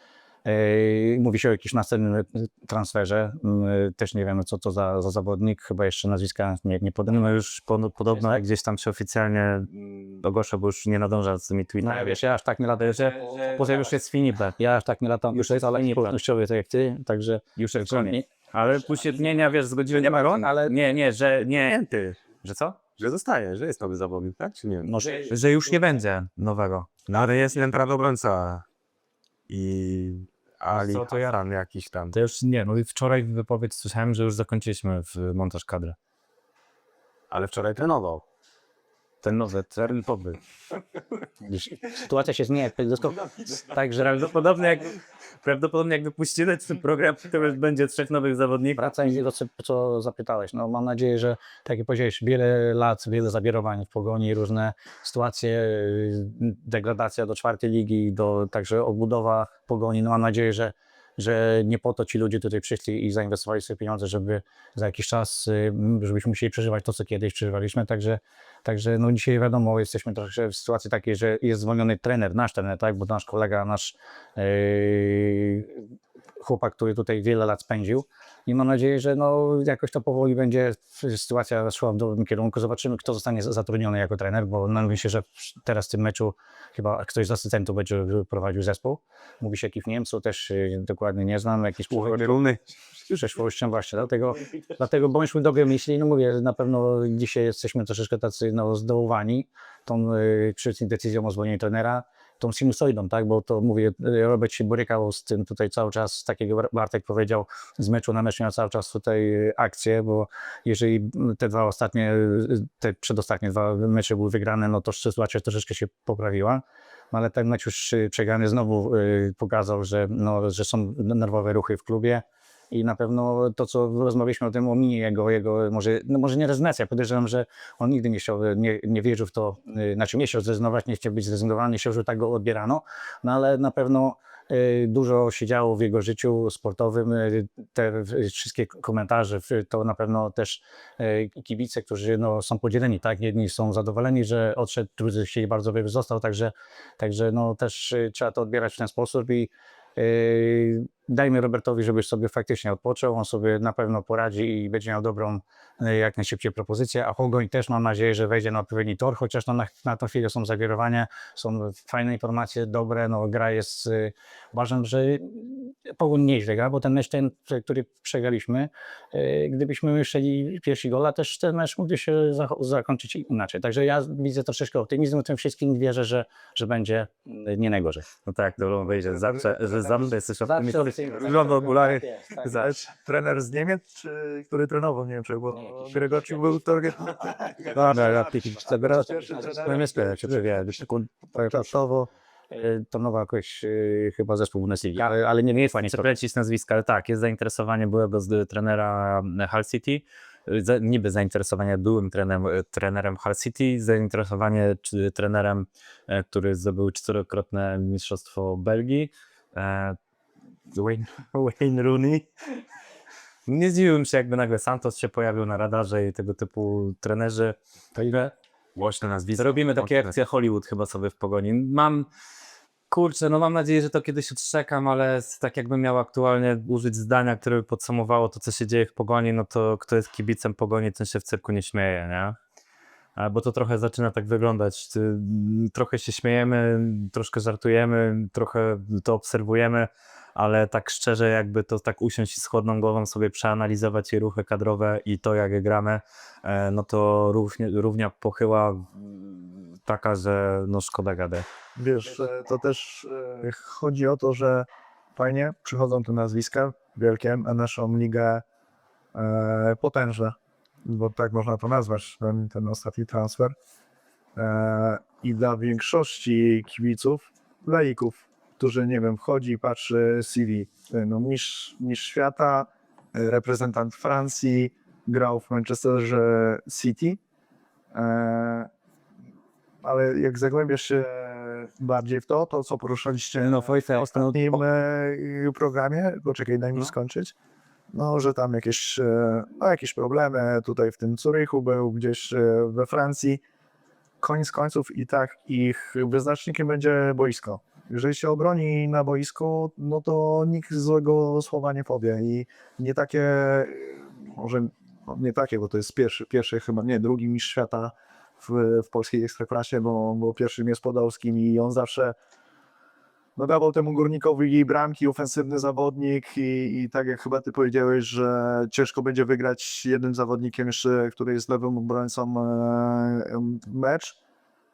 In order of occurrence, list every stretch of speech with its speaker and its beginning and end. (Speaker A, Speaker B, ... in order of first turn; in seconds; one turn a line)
Speaker A: 0.5-7.2
Speaker B: 7.1-12.2
Speaker A: 8.1-8.4
Speaker A: 11.8-13.9
Speaker B: 12.8-14.6
Speaker A: 14.6-18.3
Speaker B: 15.4-16.1
Speaker B: 17.6-22.8
Speaker A: 20.3-20.8
Speaker C: 21.6-22.2
Speaker C: 23.0-24.9
Speaker A: 24.8-25.3
Speaker B: 25.1-26.9
Speaker C: 27.1-28.6
Speaker C: 29.5-32.1
Speaker B: 30.7-31.3
Speaker B: 32.1-36.0
Speaker C: 37.3-38.2
Speaker B: 39.2-40.3
Speaker A: 41.4-44.3
Speaker B: 44.0-48.8
Speaker A: 48.8-92.4
Speaker C: 91.9-92.6
Speaker A: 93.1-178.1
Speaker B: 178.3-182.7
Speaker A: 180.4-182.5
Speaker C: 181.2-182.0
Speaker D: 182.5-190.1
Speaker A: 187.7-196.1
Speaker B: 187.8-188.2
Speaker B: 189.5-191.1
Speaker D: 191.4-191.8
Speaker B: 195.8-210.0
Speaker B: 210.7-212.3
Speaker B: 213.5-218.3
Speaker C: 218.8-220.1
Speaker B: 219.4-222.1
Speaker B: 222.9-232.4
Speaker B: 233.2-251.5
Speaker D: 251.8-258.4
Speaker D: 259.1-263.6
Speaker D: 264.4-277.2
Speaker D: 277.9-278.7
Speaker D: 279.8-287.4
Speaker B: 283.5-284.6
Speaker D: 287.9-293.4
Speaker D: 294.2-312.1
Speaker D: 313.4-324.2